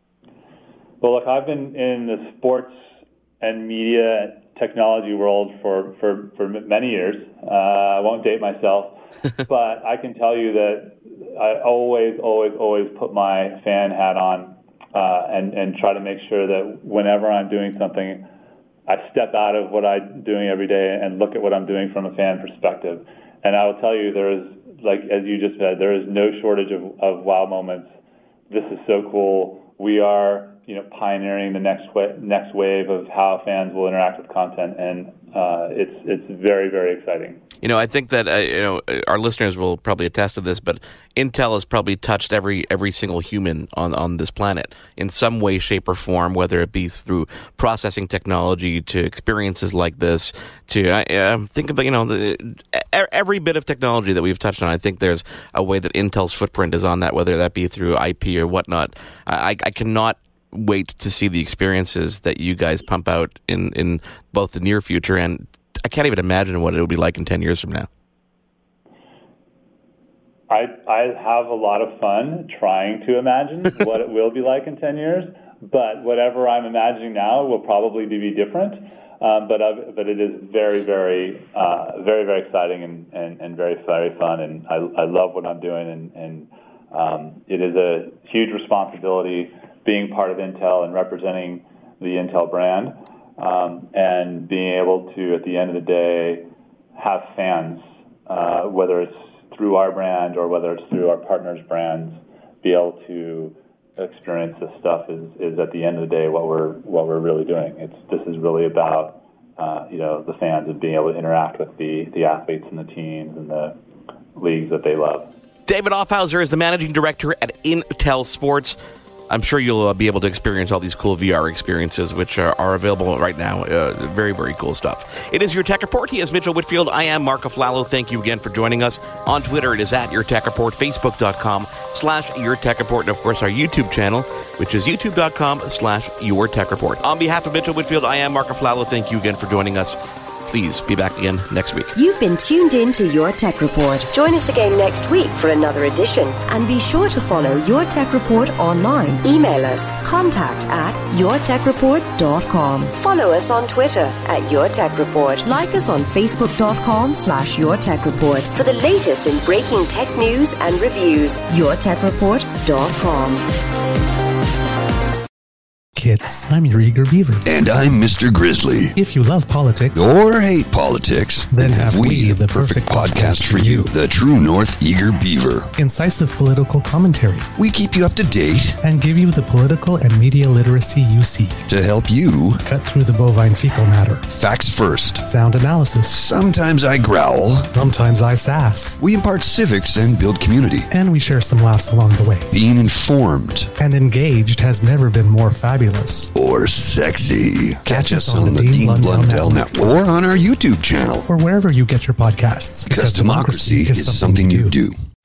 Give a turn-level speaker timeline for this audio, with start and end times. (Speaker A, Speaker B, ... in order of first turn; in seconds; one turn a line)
Speaker A: 1.0-2.8
Speaker A: 3.4-18.3
Speaker A: 18.9-27.9
Speaker A: 28.5-37.4
Speaker B: 37.6-67.9
Speaker A: 70.5-113.8
Speaker A: 114.3-115.3
Speaker B: 115.7-118.8
Speaker B: 119.3-140.0
Speaker B: 140.5-141.9
Speaker C: 142.0-163.4
Speaker D: 166.0-167.5
Speaker E: 167.4-169.0
Speaker D: 169.0-170.2
Speaker E: 169.9-175.7
Speaker D: 171.5-173.9
Speaker D: 175.8-177.5
Speaker E: 177.6-178.8
Speaker D: 178.8-181.6
Speaker E: 181.7-182.6
Speaker D: 182.7-184.3
Speaker E: 184.3-185.2
Speaker D: 185.2-186.2
Speaker E: 186.0-187.7
Speaker D: 187.7-189.0
Speaker E: 189.0-190.9
Speaker D: 190.9-192.5
Speaker E: 192.5-193.7
Speaker D: 193.8-196.3
Speaker E: 196.3-201.3
Speaker D: 197.9-199.9
Speaker D: 201.2-204.8
Speaker E: 202.9-204.9